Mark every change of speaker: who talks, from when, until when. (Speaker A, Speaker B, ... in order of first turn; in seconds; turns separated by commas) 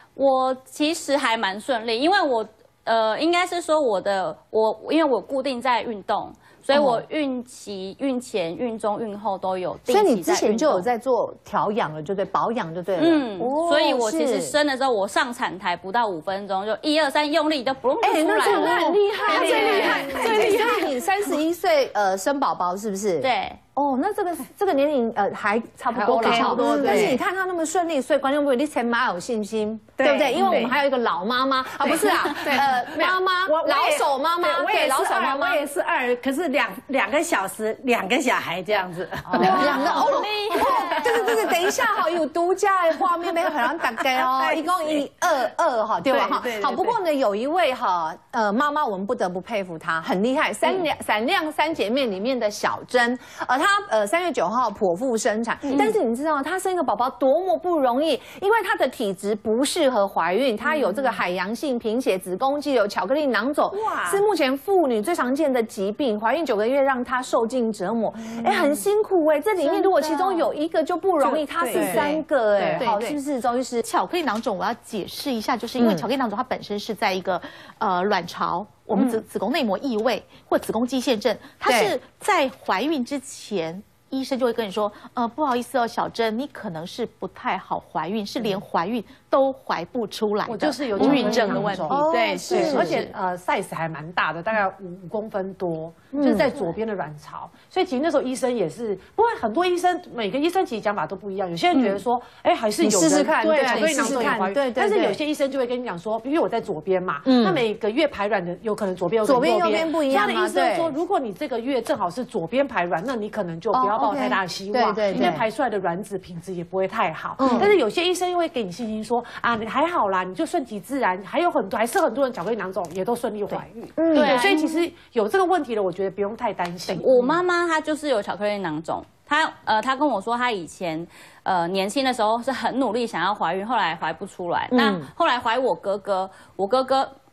Speaker A: 0.2-10.9, Speaker B: 6.7-7.0, Speaker B: 9.9-14.5, Speaker A: 13.0-20.3, Speaker B: 18.0-35.6, Speaker C: 18.6-21.0, Speaker D: 18.7-20.8, Speaker A: 23.2-23.6, Speaker D: 25.9-27.2, Speaker C: 26.0-27.2, Speaker C: 30.0-30.8, Speaker D: 31.9-33.1, Speaker C: 32.4-41.7, Speaker D: 39.3-40.0, Speaker B: 39.3-73.8, Speaker A: 39.4-41.4, Speaker C: 44.0-45.0, Speaker C: 46.0-47.0, Speaker C: 55.7-55.9, Speaker C: 63.7-64.2, Speaker C: 69.7-70.5, Speaker C: 71.2-73.1, Speaker D: 71.7-72.8, Speaker E: 73.8-93.1, Speaker B: 75.8-76.1, Speaker B: 79.0-79.2, Speaker B: 81.7-81.9, Speaker D: 90.5-127.3, Speaker B: 91.0-93.1, Speaker B: 96.1-96.5, Speaker B: 102.8-105.2, Speaker C: 103.5-104.4, Speaker B: 107.2-107.6, Speaker B: 109.2-110.9, Speaker B: 113.7-115.5, Speaker B: 117.4-117.7, Speaker B: 124.0-124.6, Speaker A: 124.1-124.8, Speaker A: 126.9-137.1, Speaker B: 134.7-135.1